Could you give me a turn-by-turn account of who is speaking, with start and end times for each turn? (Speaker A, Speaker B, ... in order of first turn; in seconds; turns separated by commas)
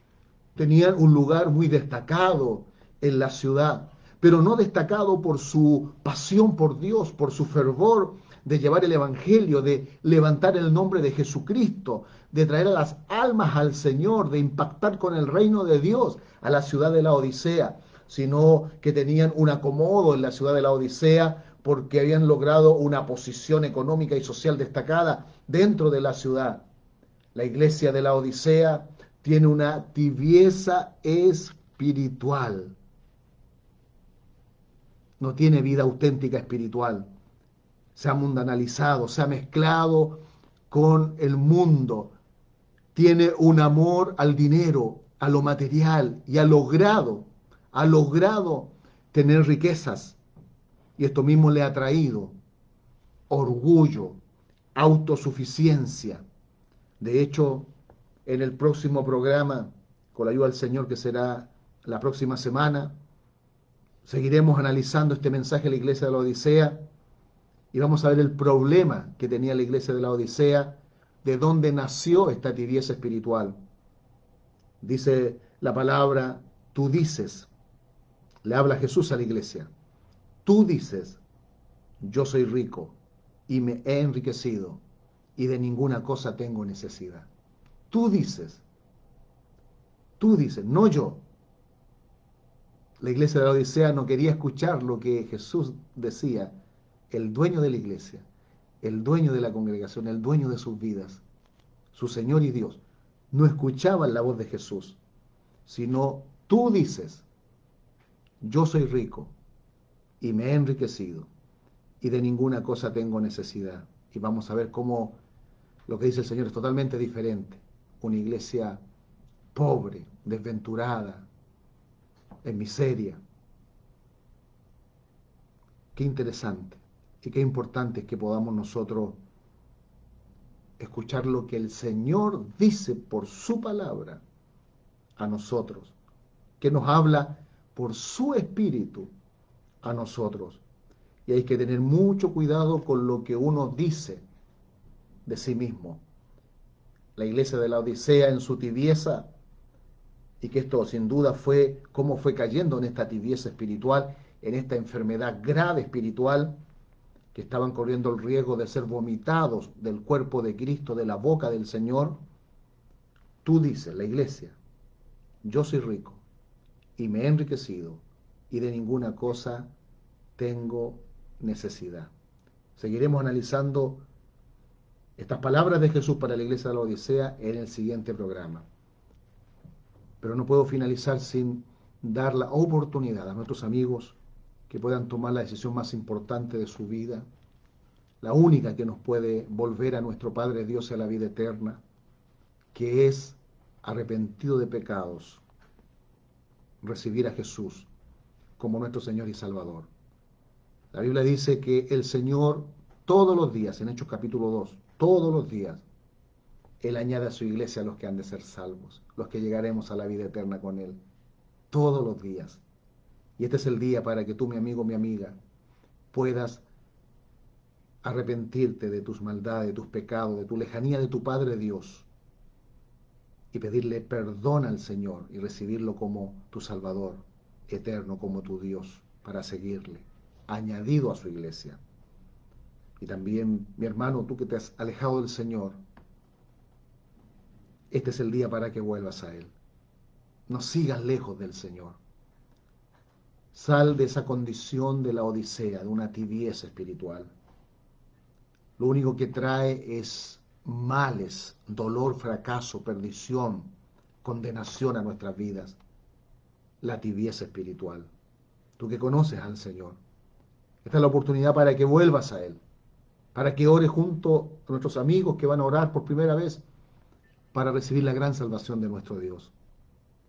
Speaker A: 0.6-26.6, Speaker A: 27.3-32.7, Speaker A: 35.2-37.1, Speaker A: 38.0-42.1, Speaker A: 42.9-50.2, Speaker A: 51.0-52.3, Speaker A: 53.3-54.2, Speaker A: 54.7-56.2, Speaker A: 57.0-57.7, Speaker A: 58.2-62.9, Speaker A: 64.0-66.8, Speaker A: 67.7-73.6, Speaker A: 74.8-77.5, Speaker A: 78.4-79.7, Speaker A: 80.4-81.2, Speaker A: 82.0-82.9, Speaker A: 83.5-84.8, Speaker A: 85.3-87.3, Speaker A: 87.9-88.6, Speaker A: 90.2-91.2, Speaker A: 93.0-96.5, Speaker A: 97.1-98.2, Speaker A: 98.8-101.2, Speaker A: 101.9-102.8, Speaker A: 103.3-105.0, Speaker A: 105.7-107.2, Speaker A: 108.4-109.3, Speaker A: 110.2-111.3, Speaker A: 112.0-115.2, Speaker A: 115.9-118.8, Speaker A: 119.5-121.3, Speaker A: 122.4-123.2, Speaker A: 126.0-129.2, Speaker A: 130.8-134.2, Speaker A: 135.2-135.9, Speaker A: 136.6-139.1, Speaker A: 139.8-140.6, Speaker A: 141.2-144.2, Speaker A: 145.2-146.0, Speaker A: 147.2-149.3, Speaker A: 150.4-156.6, Speaker A: 157.3-162.2, Speaker A: 163.4-164.6, Speaker A: 165.4-166.2, Speaker A: 167.0-169.7, Speaker A: 170.4-172.1, Speaker A: 172.8-174.0, Speaker A: 175.2-178.6, Speaker A: 180.2-184.2, Speaker A: 184.7-187.2, Speaker A: 188.2-191.8, Speaker A: 192.7-195.4, Speaker A: 196.8-197.9, Speaker A: 198.6-199.9, Speaker A: 200.9-205.8, Speaker A: 206.8-211.0, Speaker A: 211.7-212.6, Speaker A: 213.4-215.4, Speaker A: 216.1-216.6, Speaker A: 218.0-222.1, Speaker A: 223.5-231.8, Speaker A: 233.0-235.8, Speaker A: 237.9-239.5, Speaker A: 240.5-242.0, Speaker A: 243.5-247.3, Speaker A: 248.8-253.7, Speaker A: 254.2-255.8, Speaker A: 256.8-258.1, Speaker A: 258.8-260.0, Speaker A: 260.8-262.6, Speaker A: 263.3-266.6, Speaker A: 267.5-269.5